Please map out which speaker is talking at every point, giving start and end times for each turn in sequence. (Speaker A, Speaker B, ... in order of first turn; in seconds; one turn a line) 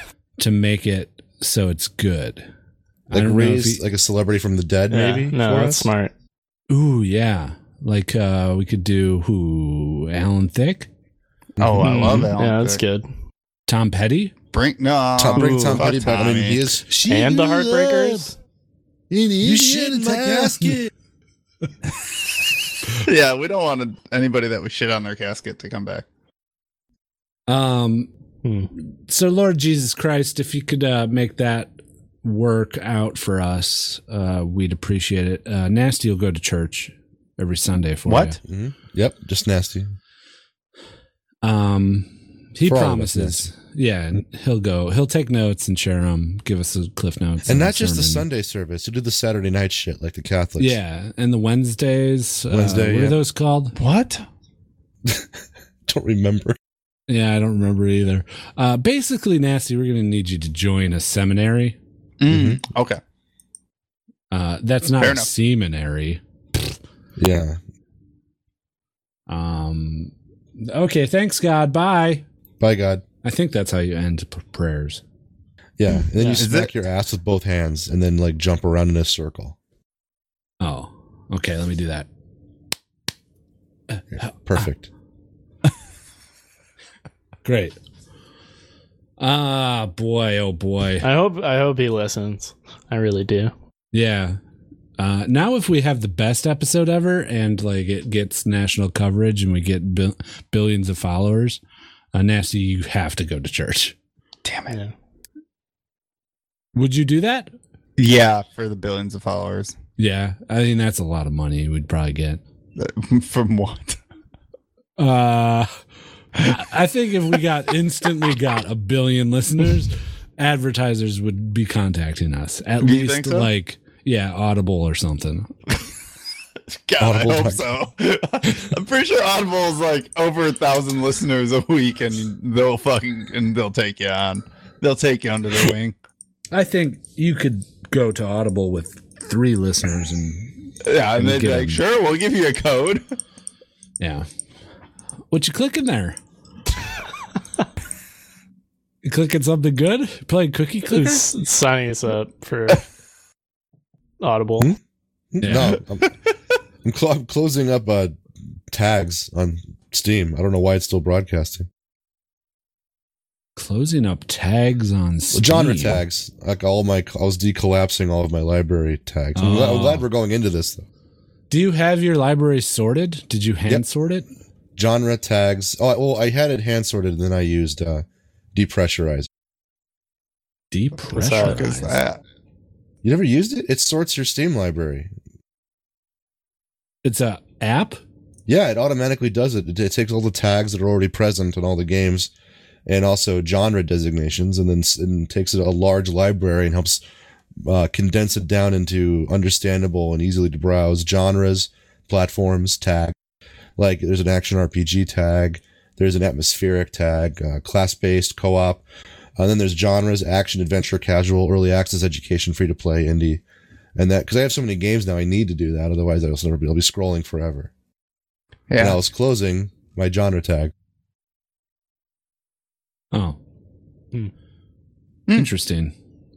Speaker A: 0.4-2.5
Speaker A: 3.1-3.8
Speaker B: 3.1-5.9
Speaker C: 4.9-6.1
Speaker A: 6.7-10.9
Speaker B: 11.6-12.3
Speaker D: 11.6-12.8
Speaker C: 11.8-13.1
Speaker A: 13.7-14.3
Speaker D: 14.5-16.7
Speaker B: 15.2-16.9
Speaker C: 15.3-15.8
Speaker A: 16.9-18.2
Speaker C: 17.1-18.4
Speaker B: 19.1-20.9
Speaker A: 19.4-20.8
Speaker D: 22.9-26.0
Speaker A: 27.5-28.1
Speaker C: 28.4-28.7
Speaker A: 28.8-38.4
Speaker D: 38.0-38.4
Speaker B: 38.4-40.0
Speaker A: 41.4-48.2
Speaker B: 42.6-43.5
Speaker B: 47.4-50.8
Speaker A: 50.6-53.8
Speaker B: 52.5-53.2
Speaker D: 53.7-54.2
Speaker B: 55.9-56.6
Speaker A: 57.1-61.8
Speaker D: 62.2-63.0
Speaker B: 62.3-62.6
Speaker A: 64.3-66.7
Speaker D: 65.0-65.3
Speaker B: 67.2-67.6
Speaker A: 69.3-72.2
Speaker B: 72.6-73.0
Speaker A: 73.2-75.0
Speaker B: 75.8-79.5
Speaker D: 75.9-76.7
Speaker A: 80.6-82.1
Speaker A: 83.9-84.3
Speaker B: 84.1-84.9
Speaker A: 87.4-87.8
Speaker A: 89.2-91.0
Speaker C: 91.0-93.5
Speaker A: 93.9-94.4
Speaker A: 95.0-101.6
Speaker A: 102.1-103.9
Speaker D: 104.4-104.8
Speaker A: 106.7-107.5
Speaker D: 108.0-109.7
Speaker A: 110.0-112.4
Speaker D: 112.8-114.0
Speaker A: 115.0-115.7
Speaker A: 116.4-125.5
Speaker D: 122.8-123.5
Speaker D: 126.7-135.9
Speaker B: 127.0-127.6
Speaker A: 136.5-141.8
Speaker D: 140.8-143.0
Speaker A: 144.0-144.3
Speaker A: 145.3-146.2
Speaker A: 149.0-151.2
Speaker C: 150.9-152.8
Speaker C: 154.2-154.7
Speaker B: 155.3-156.1
Speaker A: 155.4-155.8
Speaker B: 156.8-161.7
Speaker A: 163.6-166.0
Speaker B: 165.3-170.8
Speaker A: 169.3-170.1
Speaker A: 171.5-174.3
Speaker B: 174.8-179.3
Speaker A: 180.7-182.0
Speaker C: 181.1-181.6
Speaker D: 181.2-182.2
Speaker B: 183.0-185.1
Speaker A: 187.0-188.0
Speaker B: 188.5-192.3
Speaker B: 192.8-197.0
Speaker B: 197.6-203.1
Speaker B: 203.8-208.8
Speaker B: 209.4-213.4
Speaker B: 213.9-217.7
Speaker D: 218.7-219.0
Speaker B: 218.8-220.7
Speaker A: 225.3-225.9